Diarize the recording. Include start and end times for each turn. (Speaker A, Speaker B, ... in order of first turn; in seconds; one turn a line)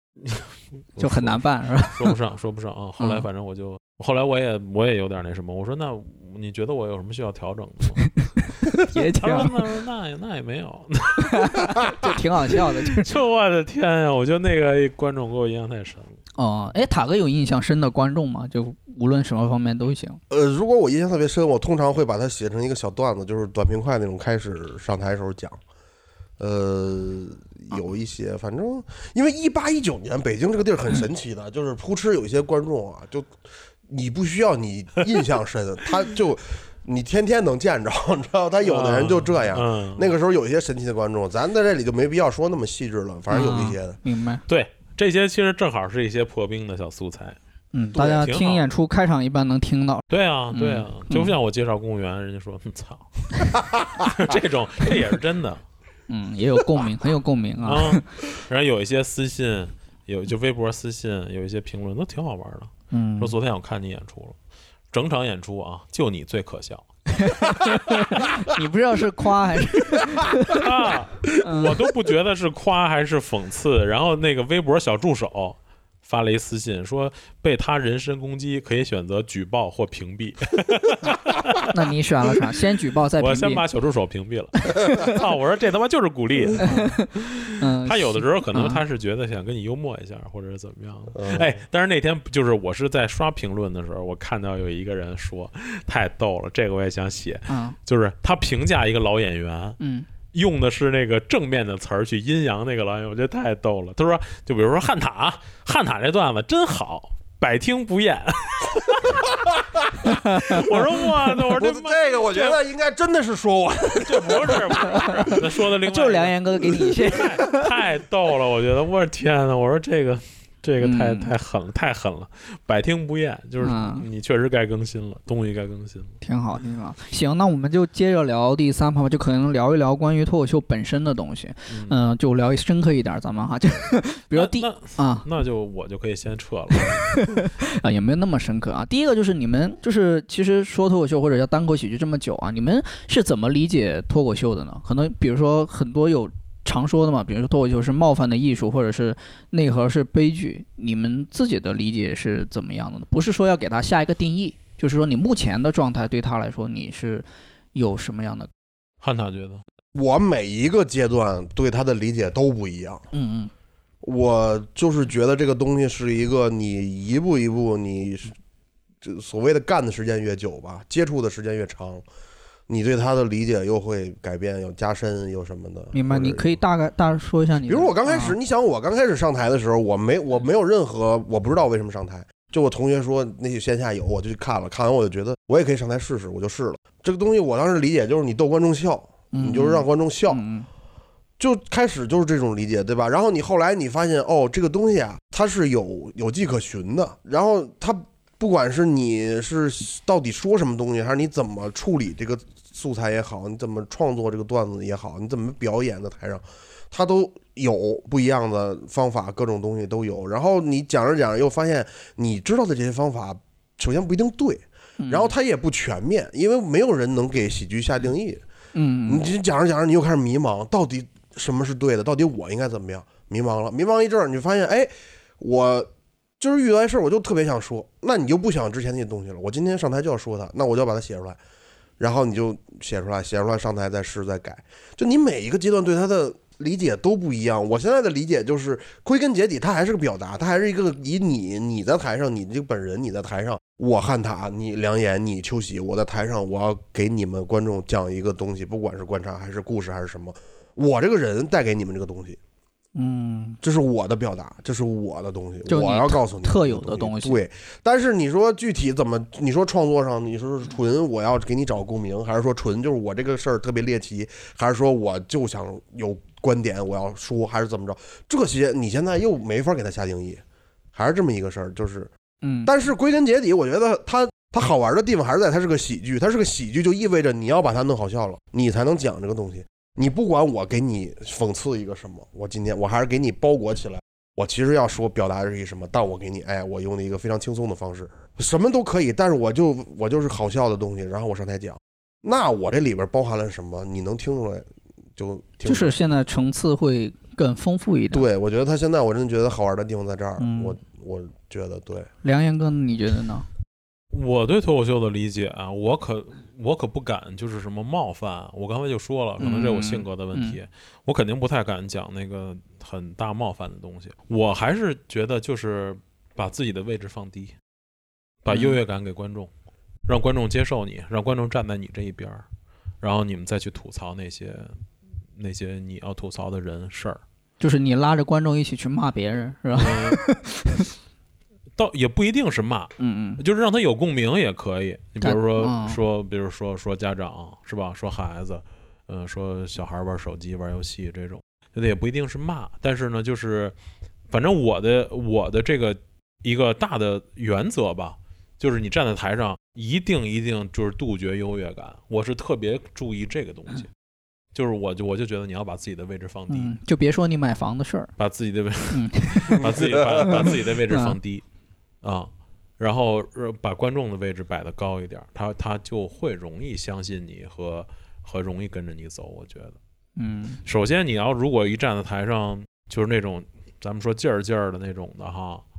Speaker A: 0.2-8.2
Speaker B: 1.0-2.1
Speaker B: 3.0-3.2
Speaker B: 8.3-9.6
Speaker A: 9.2-12.0
Speaker B: 11.2-13.1
Speaker A: 12.5-16.2
Speaker B: 16.4-20.2
Speaker C: 20.3-25.6
Speaker C: 26.4-33.4
Speaker C: 33.9-44.0
Speaker A: 38.6-40.1
Speaker B: 43.3-44.4
Speaker A: 44.5-47.4
Speaker B: 47.7-51.3
Speaker C: 48.0-48.2
Speaker A: 48.0-48.7
Speaker A: 50.1-55.6
Speaker C: 53.8-54.1
Speaker B: 56.1-58.1
Speaker A: 57.6-64.4
Speaker B: 62.9-63.4
Speaker A: 64.9-67.0
Speaker B: 67.1-70.7
Speaker A: 70.5-81.7
Speaker B: 71.4-71.8
Speaker B: 81.7-83.6
Speaker A: 83.2-99.8
Speaker B: 84.7-85.2
Speaker B: 86.6-88.8
Speaker C: 91.1-91.6
Speaker B: 97.5-97.8
Speaker B: 99.8-100.1
Speaker A: 100.3-112.6
Speaker B: 110.1-110.6
Speaker C: 111.5-115.4
Speaker A: 114.0-126.1
Speaker B: 115.0-117.7
Speaker B: 120.8-121.3
Speaker B: 123.6-124.1
Speaker B: 126.2-135.2
Speaker A: 131.7-132.0
Speaker A: 134.3-137.4
Speaker B: 136.7-158.5
Speaker A: 159.0-159.6
Speaker C: 159.9-163.1
Speaker B: 163.1-163.5
Speaker C: 164.0-168.3
Speaker C: 169.0-172.0
Speaker C: 172.7-176.6
Speaker B: 175.9-178.4
Speaker C: 177.7-190.4
Speaker B: 189.3-190.7
Speaker C: 191.4-218.4
Speaker B: 215.0-215.3
Speaker B: 218.7-219.2
Speaker C: 219.1-231.4
Speaker C: 232.0-252.4
Speaker B: 252.9-253.6
Speaker C: 253.6-270.4
Speaker B: 255.7-257.4
Speaker C: 270.9-272.1
Speaker B: 272.4-272.7
Speaker C: 272.6-296.0
Speaker B: 295.6-298.3
Speaker C: 298.1-302.1
Speaker B: 300.4-300.8
Speaker B: 302.2-303.5
Speaker A: 304.1-317.6
Speaker B: 309.4-310.6
Speaker A: 318.4-319.5
Speaker B: 318.5-318.8
Speaker A: 320.1-322.4
Speaker A: 323.0-324.8
Speaker A: 325.3-327.2
Speaker B: 327.6-330.9
Speaker A: 329.7-330.2
Speaker A: 331.8-343.8
Speaker B: 333.0-333.4
Speaker B: 335.2-336.0
Speaker A: 344.3-353.9
Speaker A: 354.5-356.7
Speaker B: 356.5-358.1
Speaker A: 358.2-361.4
Speaker B: 358.9-361.1
Speaker C: 359.8-360.3
Speaker A: 362.0-369.8
Speaker B: 370.2-370.6
Speaker A: 370.6-375.6